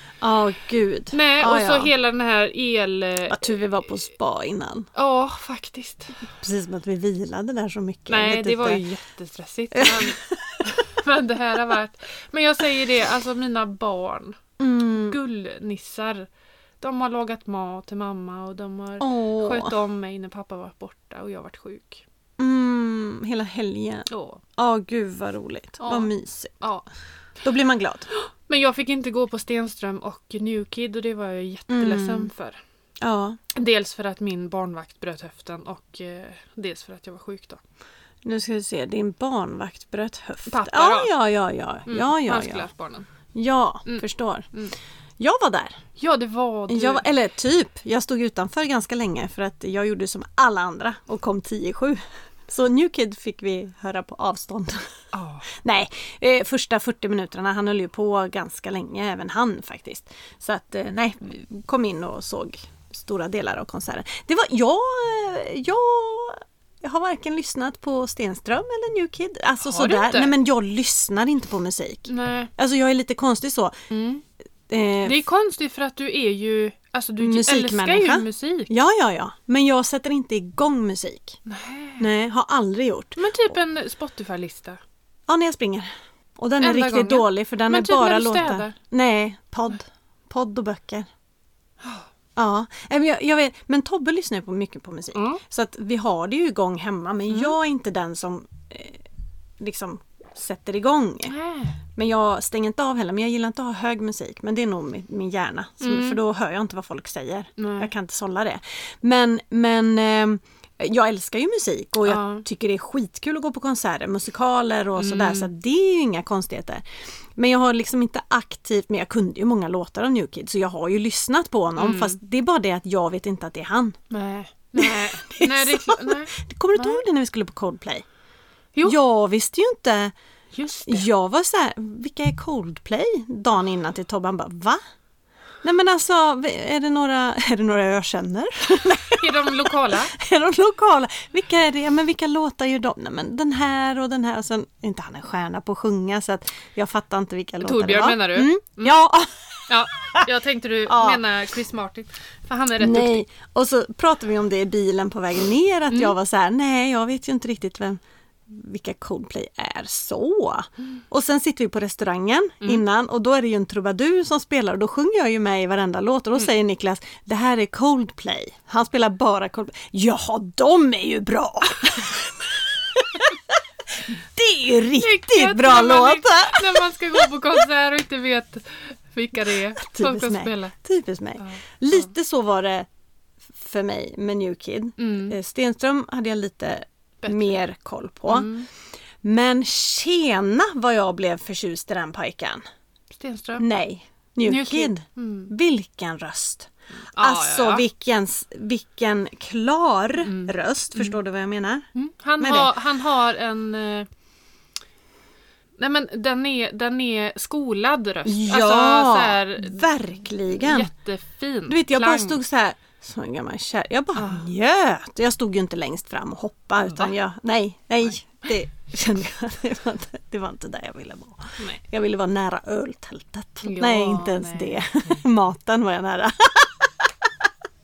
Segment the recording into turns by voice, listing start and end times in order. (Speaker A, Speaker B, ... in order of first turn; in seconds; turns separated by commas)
Speaker A: 0.2-1.9, Speaker B: 1.1-3.6, Speaker A: 3.2-4.9, Speaker B: 4.9-6.3, Speaker A: 6.4-8.8, Speaker B: 8.1-14.4, Speaker A: 9.7-10.7, Speaker A: 14.6-15.2, Speaker B: 14.9-16.3, Speaker B: 16.8-22.0, Speaker A: 19.0-19.8, Speaker A: 22.4-26.6, Speaker B: 24.1-24.4, Speaker B: 25.8-26.9, Speaker A: 27.4-28.1, Speaker B: 28.4-32.6, Speaker A: 31.7-32.3, Speaker A: 33.0-33.4, Speaker B: 33.5-37.6, Speaker A: 38.2-42.7, Speaker B: 40.5-41.1, Speaker B: 41.9-43.1, Speaker A: 43.3-44.5, Speaker B: 43.9-44.7, Speaker A: 45.2-45.8, Speaker B: 46.0-47.0, Speaker A: 46.7-54.9, Speaker B: 55.1-55.5, Speaker A: 55.5-73.8, Speaker B: 69.6-70.3, Speaker B: 72.1-72.5, Speaker B: 73.9-74.2, Speaker A: 74.7-75.2, Speaker B: 75.0-78.7, Speaker A: 77.2-81.4, Speaker B: 81.5-82.0, Speaker A: 82.0-83.5, Speaker B: 83.2-84.8, Speaker A: 85.3-91.1, Speaker B: 86.6-88.8, Speaker B: 91.8-92.1, Speaker A: 92.3-99.0, Speaker B: 95.1-95.4, Speaker B: 97.3-97.5, Speaker A: 99.6-101.3, Speaker B: 101.2-101.8, Speaker A: 102.0-116.8, Speaker B: 105.8-106.2, Speaker B: 107.6-107.9, Speaker B: 112.0-112.4, Speaker B: 115.0-115.5, Speaker A: 117.3-124.0, Speaker B: 121.8-122.2, Speaker B: 124.1-127.0, Speaker A: 124.8-128.0, Speaker A: 128.8-130.1, Speaker B: 130.5-131.1, Speaker A: 130.9-134.8, Speaker A: 135.6-150.3, Speaker B: 139.2-140.1, Speaker B: 147.6-148.9, Speaker B: 149.7-153.2, Speaker A: 150.8-151.2, Speaker A: 152.8-177.6, Speaker B: 155.9-156.1, Speaker B: 175.0-180.7, Speaker A: 179.8-182.9, Speaker B: 181.4-182.1, Speaker A: 183.5-188.5, Speaker B: 185.0-185.3, Speaker B: 187.2-187.6, Speaker B: 188.3-188.7, Speaker A: 189.2-192.6, Speaker B: 193.1-193.6, Speaker A: 193.6-201.9, Speaker B: 194.4-195.5, Speaker B: 197.1-197.8, Speaker B: 200.2-201.2, Speaker B: 201.9-204.1, Speaker A: 202.4-202.7, Speaker B: 205.8-209.9, Speaker A: 208.2-210.9, Speaker B: 210.5-212.4, Speaker A: 211.7-227.1, Speaker B: 214.2-214.4, Speaker B: 223.6-224.8